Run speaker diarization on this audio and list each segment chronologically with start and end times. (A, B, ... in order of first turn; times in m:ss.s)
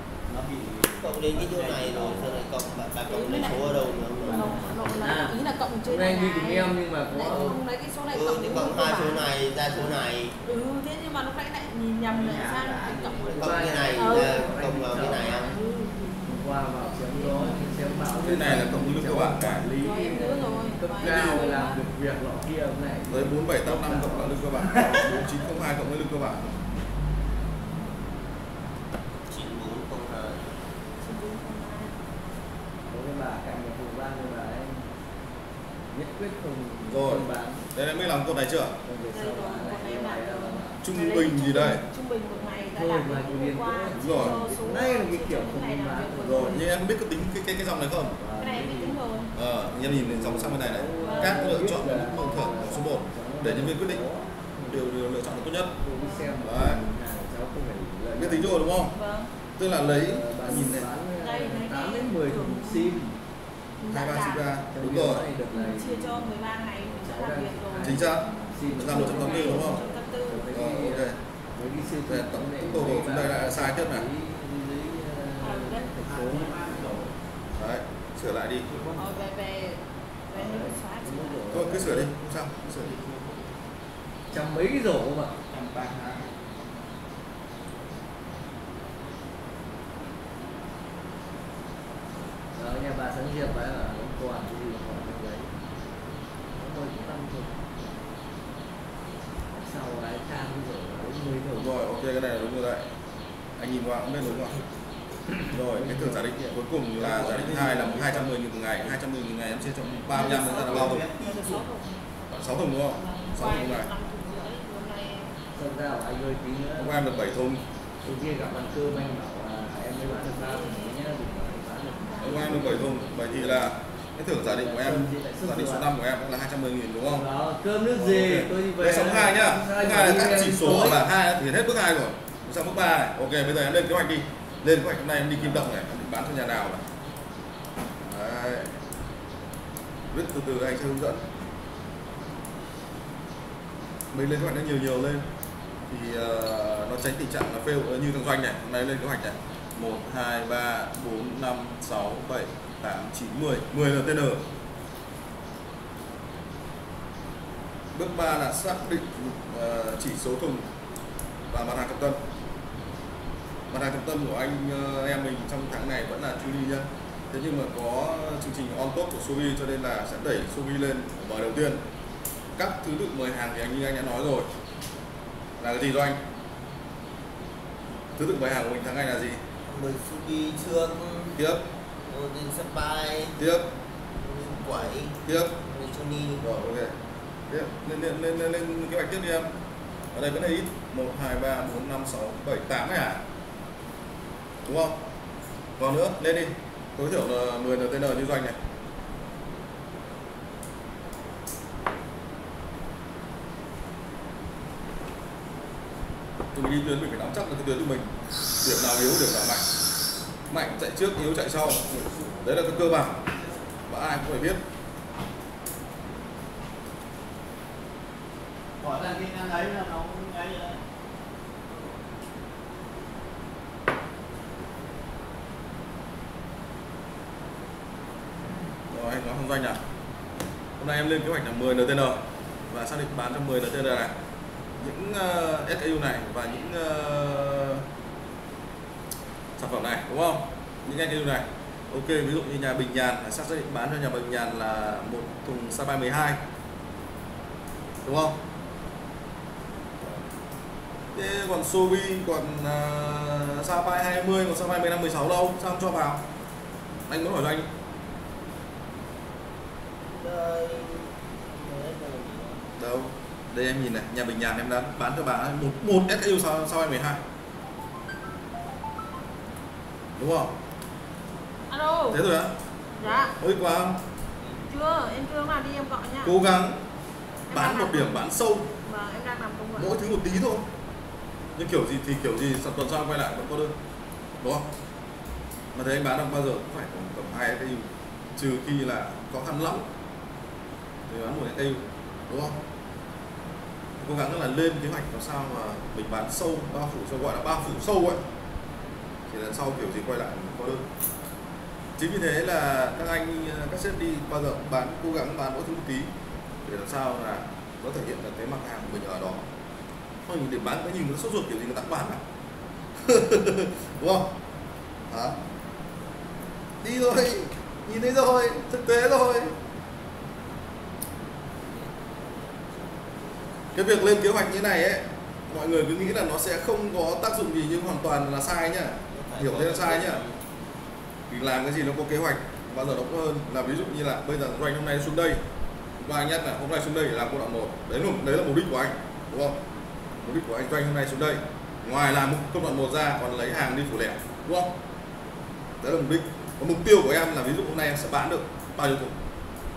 0:00.3-0:02.5 A
0:01.0-0:05.2 B
0:03.1-0:09.2 C
0:03.1-0:05.0 A
0:04.9-0:07.6 D
0:07.3-0:07.6 B
0:08.1-0:10.4 B
0:09.7-0:10.0 A
0:10.4-0:16.4 C
0:12.1-0:13.4 A
0:13.3-0:15.6 B
0:13.4-0:15.5 D
0:16.2-0:25.0 D
0:17.0-0:17.6 C
0:18.2-0:19.7 E
0:19.8-0:21.8 C
0:23.1-0:26.6 E
0:29.3-0:30.5 B
0:31.0-0:32.0 C
0:32.9-0:34.9 D
0:35.9-0:37.7 D
0:36.9-0:38.8 E
0:38.8-0:40.8 D
0:39.1-0:46.6 C
0:40.8-0:41.8 E
0:42.3-0:46.6 D
0:44.0-0:44.3 E
0:46.5-0:48.2 E
0:48.2-0:49.0 D
0:48.4-0:49.3 C
0:49.3-0:54.0 E
0:49.8-0:54.8 D
0:51.0-0:52.9 C
0:54.7-0:55.7 E
0:55.8-0:58.6 D
0:55.9-0:56.4 C
0:56.4-0:56.8 E
0:58.1-0:58.9 E
0:58.9-0:59.4 C
0:59.6-1:00.9 E
0:59.9-1:03.2 D
1:00.4-1:03.0 C
1:03.8-1:04.5 C
1:03.9-1:05.2 E
1:04.7-1:17.1 D
1:05.5-1:10.5 C
1:07.8-1:08.2 E
1:08.8-1:09.8 E
1:10.5-1:11.2 E
1:12.1-1:14.0 E
1:15.4-1:15.9 C
1:16.0-1:17.1 A
1:17.6-1:18.7 E
1:18.6-1:19.2 A
1:19.0-1:21.5 C
1:20.3-1:22.1 D
1:21.5-1:23.0 E
1:22.7-1:23.5 A
1:24.3-1:25.4 D
1:25.5-1:26.4 A
1:32.5-1:35.5 D
1:36.6-1:37.7 D
1:39.5-1:41.8 D
1:41.6-1:42.9 E
1:43.6-1:44.6 E
1:45.5-1:48.3 D
1:45.5-1:51.0 E
1:50.1-1:52.0 C
1:50.1-1:51.6 A
1:52.3-1:53.9 E
1:52.9-1:55.4 C
1:55.5-1:57.1 D
1:56.8-1:57.6 E
1:58.0-2:03.7 D
2:00.0-2:03.2 C
2:02.2-2:07.2 E
2:04.4-2:05.9 D
2:07.0-2:11.0 D
2:08.0-2:16.8 E
2:18.0-2:18.8 E
2:20.1-2:21.2 E
2:24.1-2:25.3 E
2:25.9-2:34.5 E
2:37.9-2:40.7 E
2:41.5-2:42.2 E
2:43.7-2:51.8 E
2:52.6-2:54.5 E
2:55.6-2:56.2 E
2:58.2-2:59.4 E
2:59.6-3:01.4 B
3:01.3-3:01.6 E
3:02.0-3:03.4 B
3:03.4-3:03.7 E
3:04.1-3:06.4 B
3:05.2-3:05.5 E
3:06.4-3:06.9 E
3:07.5-3:09.5 E
3:10.1-3:13.2 E
3:14.6-3:15.0 E
3:15.8-3:18.6 E
3:26.5-3:29.7 E
3:30.5-3:33.2 E
3:33.8-3:34.6 E
3:38.8-3:40.8 A
3:48.9-3:49.8 E
3:50.8-3:54.1 E
3:54.8-3:57.8 E
3:59.6-4:06.4 E
4:08.0-4:08.4 E
4:11.1-4:16.2 E
4:17.1-4:17.7 E
4:20.1-4:22.6 B
4:22.8-4:27.2 E
4:30.2-4:30.5 E
4:31.7-4:32.2 C
4:32.1-4:32.6 E
4:33.0-4:33.4 C
4:33.4-4:34.0 E
4:34.7-4:36.4 C
4:36.2-4:36.8 E
4:37.5-4:38.2 C
4:37.5-4:38.7 E
4:38.8-4:40.0 C
4:39.8-4:40.6 E
4:41.6-4:43.7 E
4:44.4-4:44.6 E
4:45.7-4:49.9 E
4:51.1-4:52.6 E
4:54.0-4:58.2 E
4:59.3-5:00.8 E
5:02.0-5:06.1 E
5:06.6-5:09.4 E
5:10.2-5:12.2 E
5:13.0-5:14.3 E
5:15.1-5:15.4 E
5:16.8-5:19.6 E
5:21.6-5:23.7 B
5:23.7-5:30.2 E
5:29.1-5:30.5 B
5:31.3-5:35.4 E
5:36.0-5:39.6 E
5:40.2-5:44.7 E
5:45.8-5:49.2 E